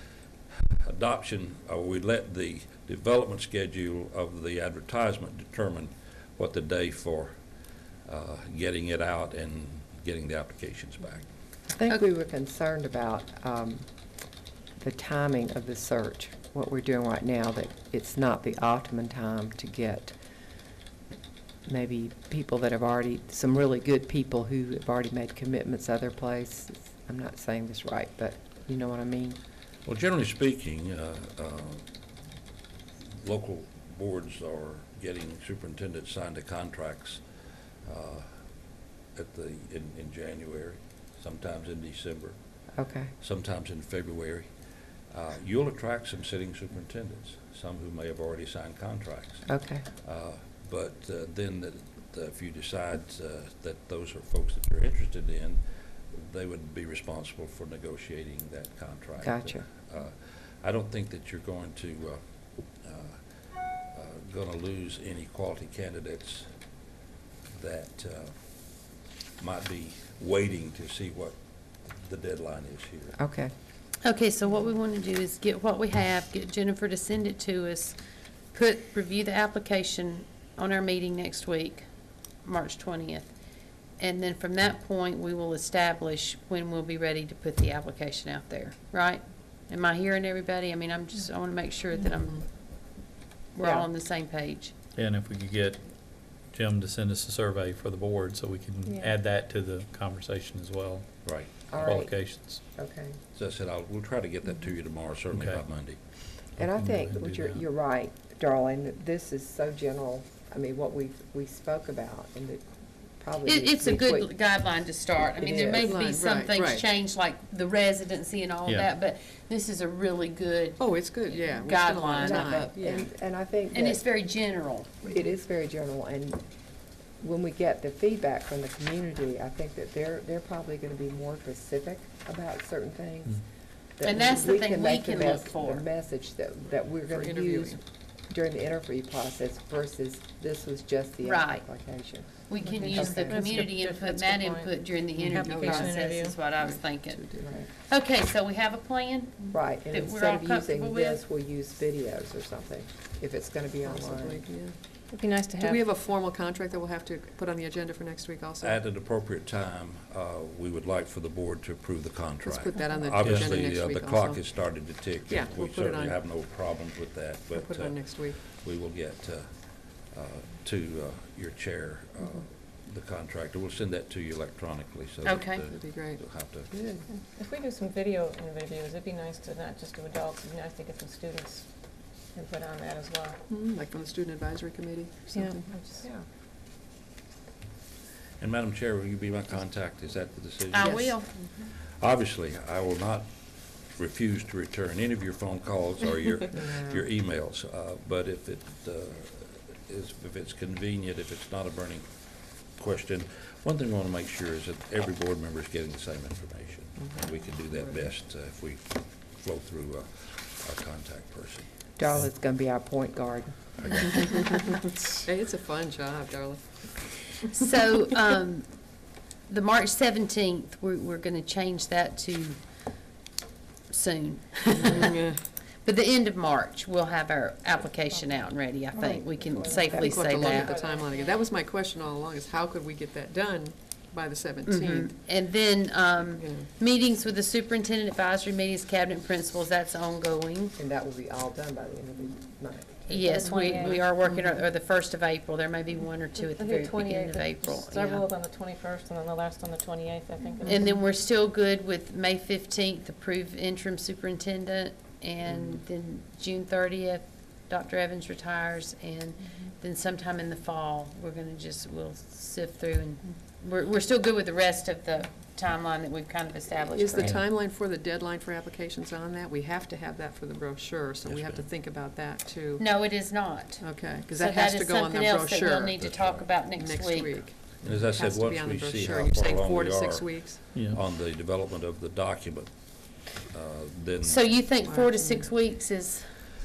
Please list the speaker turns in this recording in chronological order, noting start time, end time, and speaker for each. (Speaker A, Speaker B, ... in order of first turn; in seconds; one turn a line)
Speaker A: 0.7-7.4
Speaker A: 8.1-11.2
Speaker B: 11.7-13.8
Speaker B: 14.8-20.1
Speaker B: 21.6-29.4
Speaker A: 29.8-31.9
Speaker A: 33.1-37.2
Speaker A: 37.8-38.3
Speaker A: 39.1-42.4
Speaker B: 42.8-43.1
Speaker A: 43.2-44.5
Speaker A: 45.1-62.2
Speaker B: 49.5-49.8
Speaker B: 59.2-59.6
Speaker A: 62.8-63.2
Speaker A: 63.8-66.5
Speaker A: 67.5-68.4
Speaker A: 69.4-73.2
Speaker B: 73.2-73.5
Speaker C: 74.0-78.0
Speaker C: 78.5-81.9
Speaker C: 82.4-83.3
Speaker C: 84.0-94.7
Speaker D: 92.1-92.4
Speaker B: 93.6-93.9
Speaker E: 94.9-102.6
Speaker F: 98.8-99.2
Speaker A: 101.2-101.5
Speaker B: 101.7-103.2
Speaker A: 103.3-106.0
Speaker E: 105.3-105.7
Speaker E: 106.4-107.6
Speaker B: 106.6-112.7
Speaker B: 113.2-114.3
Speaker C: 113.4-122.7
Speaker B: 115.4-116.0
Speaker D: 115.6-116.9
Speaker E: 118.6-118.9
Speaker D: 120.8-123.1
Speaker B: 122.2-124.0
Speaker C: 123.7-125.0
Speaker B: 125.0-126.4
Speaker B: 127.2-133.4
Speaker B: 134.0-143.5
Speaker C: 134.0-135.9
Speaker D: 137.1-137.8
Speaker C: 141.2-141.7
Speaker C: 142.5-147.2
Speaker F: 142.6-146.4
Speaker D: 145.2-145.9
Speaker D: 146.4-147.6
Speaker B: 147.4-147.7
Speaker C: 147.9-151.2
Speaker B: 149.5-154.4
Speaker D: 153.8-154.8
Speaker F: 155.1-155.8
Speaker D: 155.5-158.8
Speaker A: 158.6-176.7
Speaker D: 162.4-164.7
Speaker E: 163.2-163.6
Speaker D: 165.3-166.2
Speaker D: 167.5-168.4
Speaker C: 175.2-175.6
Speaker D: 175.7-176.2
Speaker D: 176.8-177.1
Speaker F: 177.1-183.4
Speaker D: 183.5-186.1
Speaker F: 185.3-186.2
Speaker A: 188.4-202.1
Speaker C: 190.7-191.3
Speaker D: 190.8-191.1
Speaker B: 196.6-197.0
Speaker A: 202.7-211.7
Speaker B: 212.0-214.1
Speaker A: 213.8-214.2
Speaker D: 214.5-217.5
Speaker C: 217.4-222.6
Speaker C: 223.9-225.1
Speaker D: 225.0-225.4
Speaker C: 225.8-230.7
Speaker B: 229.0-229.4
Speaker F: 229.1-231.4
Speaker D: 229.9-235.1
Speaker C: 234.7-240.7
Speaker D: 236.4-236.7
Speaker B: 240.8-244.0
Speaker C: 243.1-248.3
Speaker F: 243.2-244.1
Speaker F: 246.3-250.9
Speaker C: 250.6-267.4
Speaker D: 266.8-273.3
Speaker E: 267.2-267.4
Speaker A: 271.2-271.6
Speaker C: 272.8-277.4
Speaker D: 273.8-276.1
Speaker A: 276.0-276.5
Speaker D: 276.7-280.6
Speaker A: 277.8-284.6
Speaker E: 280.7-281.0
Speaker C: 284.2-286.2
Speaker D: 284.8-285.5